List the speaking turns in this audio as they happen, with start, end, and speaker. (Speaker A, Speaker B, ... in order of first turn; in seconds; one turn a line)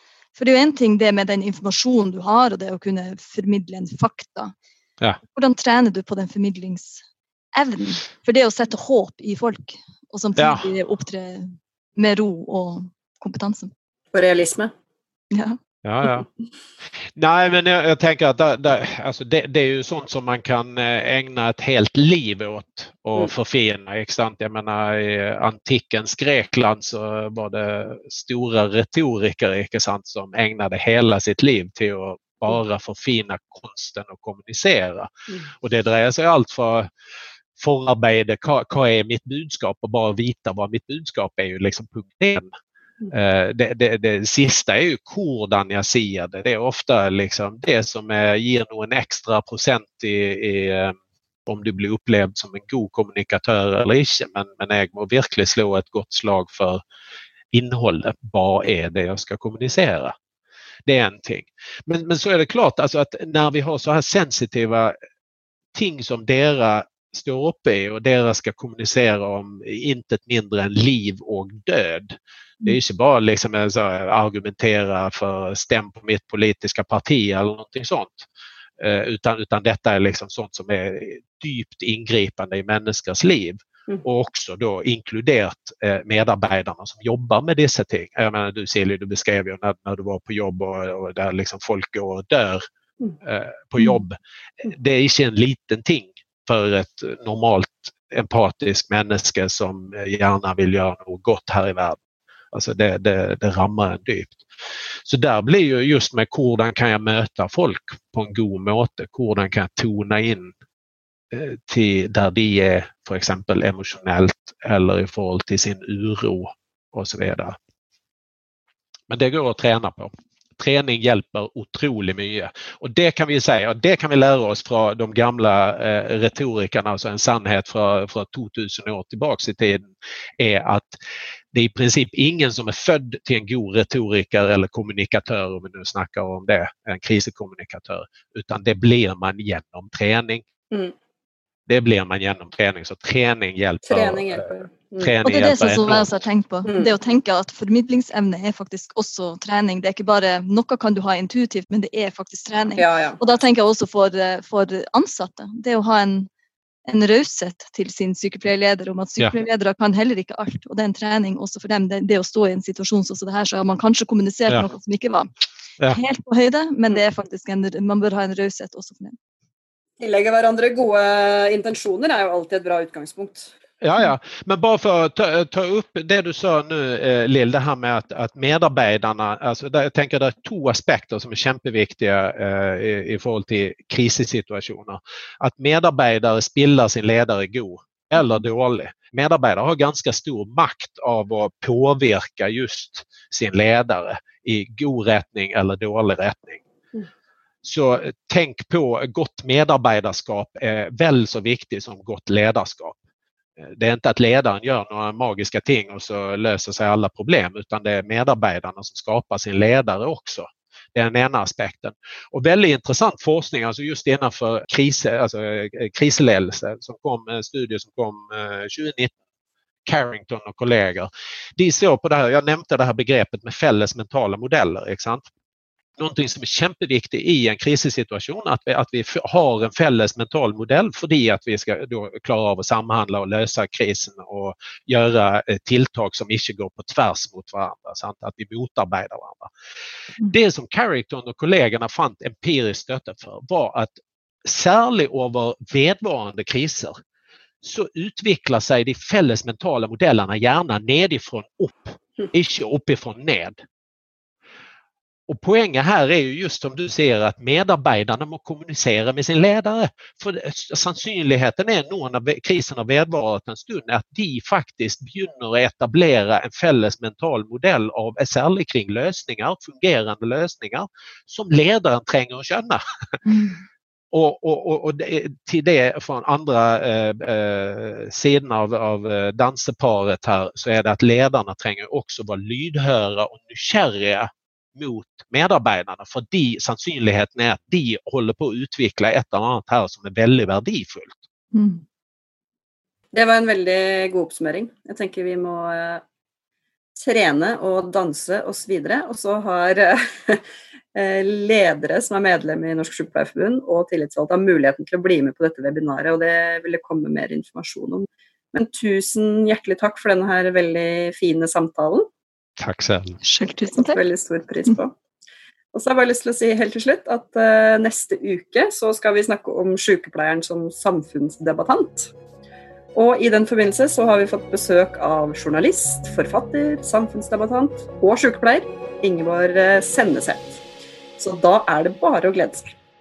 Speaker A: 0.4-4.5
Speaker A: 5.3-7.0
Speaker A: 7.5-13.7
Speaker B: 10.4-10.7
Speaker C: 14.1-14.7
Speaker A: 15.3-15.6
Speaker B: 15.8-16.3
Speaker B: 17.2-36.9
Speaker B: 37.6-42.5
Speaker B: 43.1-56.8
Speaker B: 57.5-60.1
Speaker B: 60.9-65.0
Speaker B: 65.7-78.3
Speaker B: 78.8-92.6
Speaker B: 93.2-102.0
Speaker B: 102.5-104.4
Speaker B: 105.0-110.5
Speaker B: 111.3-117.6
Speaker B: 119.1-131.0
Speaker B: 131.5-140.4
Speaker B: 141.7-144.5
Speaker C: 143.8-145.2
Speaker B: 145.0-146.1
Speaker A: 145.2-156.3
Speaker C: 146.7-146.9
Speaker C: 152.8-153.2
Speaker A: 156.9-165.3
Speaker A: 165.9-169.2
Speaker C: 170.0-173.6
Speaker B: 173.8-196.7
Speaker B: 197.6-203.0
Speaker B: 203.6-219.2
Speaker B: 219.8-225.2
Speaker B: 226.0-239.5
Speaker B: 240.2-243.9
Speaker B: 244.4-246.9
Speaker B: 247.6-253.6
Speaker B: 255.3-272.8
Speaker A: 273.2-273.6
Speaker B: 274.1-291.2
Speaker A: 291.5-291.8
Speaker C: 293.1-296.0
Speaker C: 296.9-300.4
Speaker C: 300.9-312.1
Speaker B: 312.6-313.2
Speaker A: 313.2-314.0
Speaker C: 313.6-314.9
Speaker C: 315.7-322.1
Speaker C: 322.9-330.6
Speaker C: 331.2-332.8